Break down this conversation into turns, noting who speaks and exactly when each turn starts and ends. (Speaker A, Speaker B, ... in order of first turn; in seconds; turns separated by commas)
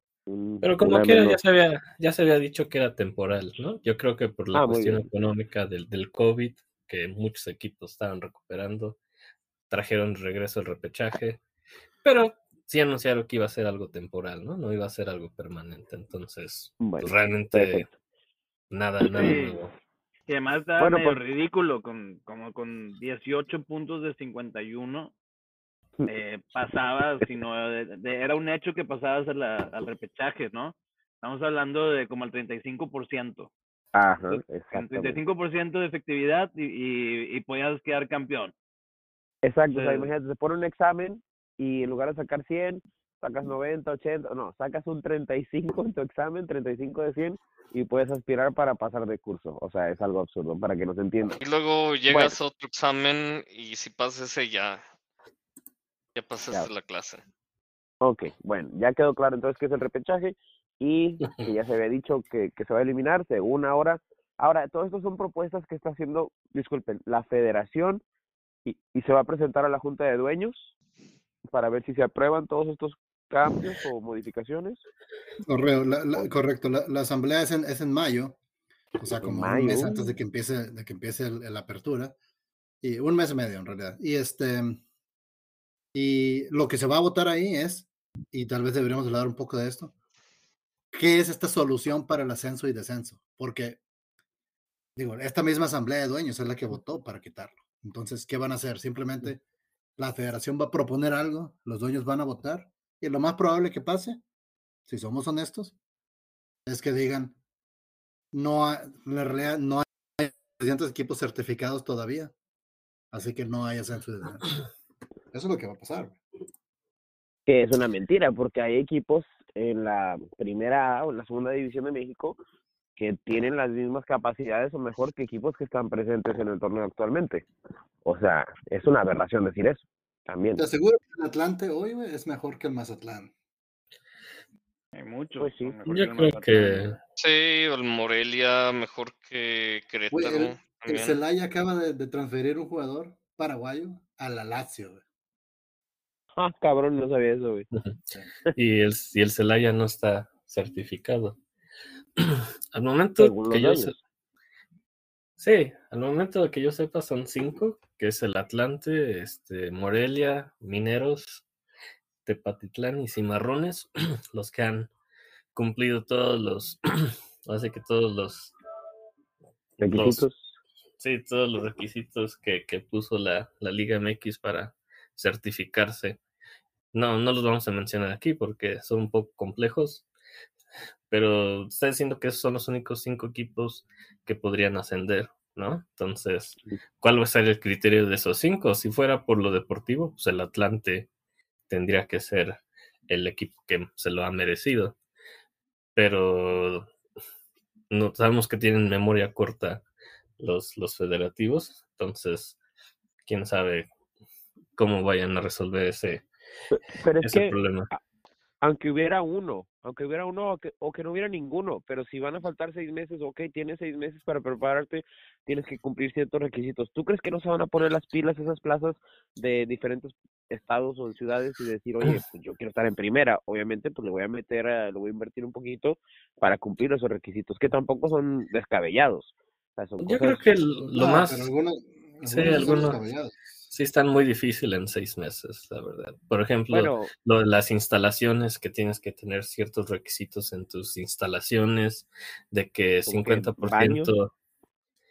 Speaker A: 0.3-1.4, Speaker B: 0.6-9.0, Speaker A: 4.5-5.1, Speaker B: 9.7-11.4, Speaker B: 12.0-17.9, Speaker A: 16.8-17.9, Speaker B: 18.7-19.7, Speaker C: 19.1-19.6, Speaker C: 20.3-25.1, Speaker A: 20.8-21.2, Speaker C: 26.1-33.5, Speaker A: 33.9-35.2, Speaker C: 34.3-38.5, Speaker A: 39.4-51.4, Speaker C: 39.7-40.1, Speaker D: 51.4-54.8, Speaker A: 52.1-52.4, Speaker D: 56.1-57.2, Speaker A: 58.0-68.0, Speaker A: 68.6-70.7, Speaker A: 71.5-74.8, Speaker E: 75.5-78.4, Speaker E: 79.0-82.2, Speaker A: 79.2-80.1, Speaker E: 82.8-84.8, Speaker E: 85.9-89.9, Speaker E: 90.9-93.8, Speaker E: 95.0-99.4, Speaker E: 100.0-104.2, Speaker E: 104.9-105.7, Speaker E: 106.7-107.4, Speaker E: 108.3-112.3, Speaker E: 113.1-114.5, Speaker E: 115.3-116.2, Speaker A: 117.5-122.4, Speaker A: 123.0-127.5, Speaker A: 128.0-130.6, Speaker E: 130.6-133.3, Speaker C: 134.9-136.8, Speaker A: 135.4-135.8, Speaker B: 135.9-137.0, Speaker D: 137.2-141.2, Speaker E: 140.1-145.0, Speaker A: 146.4-147.7, Speaker B: 148.5-151.4, Speaker B: 152.2-153.9, Speaker A: 153.2-154.0, Speaker B: 155.4-161.4, Speaker B: 162.2-164.9, Speaker B: 165.5-168.5, Speaker B: 169.8-170.2, Speaker A: 169.8-170.5, Speaker B: 171.0-176.2, Speaker B: 176.9-180.1, Speaker B: 181.1-191.1, Speaker B: 191.7-194.9, Speaker B: 195.9-196.9, Speaker B: 197.9-199.8, Speaker B: 200.4-202.6, Speaker B: 203.2-203.9, Speaker B: 204.8-206.2, Speaker A: 206.7-208.0, Speaker B: 207.2-207.9, Speaker A: 208.6-230.5, Speaker B: 230.0-231.5, Speaker E: 230.9-233.7, Speaker B: 232.2-233.0, Speaker B: 233.7-244.3, Speaker A: 236.7-237.1, Speaker A: 243.1-244.1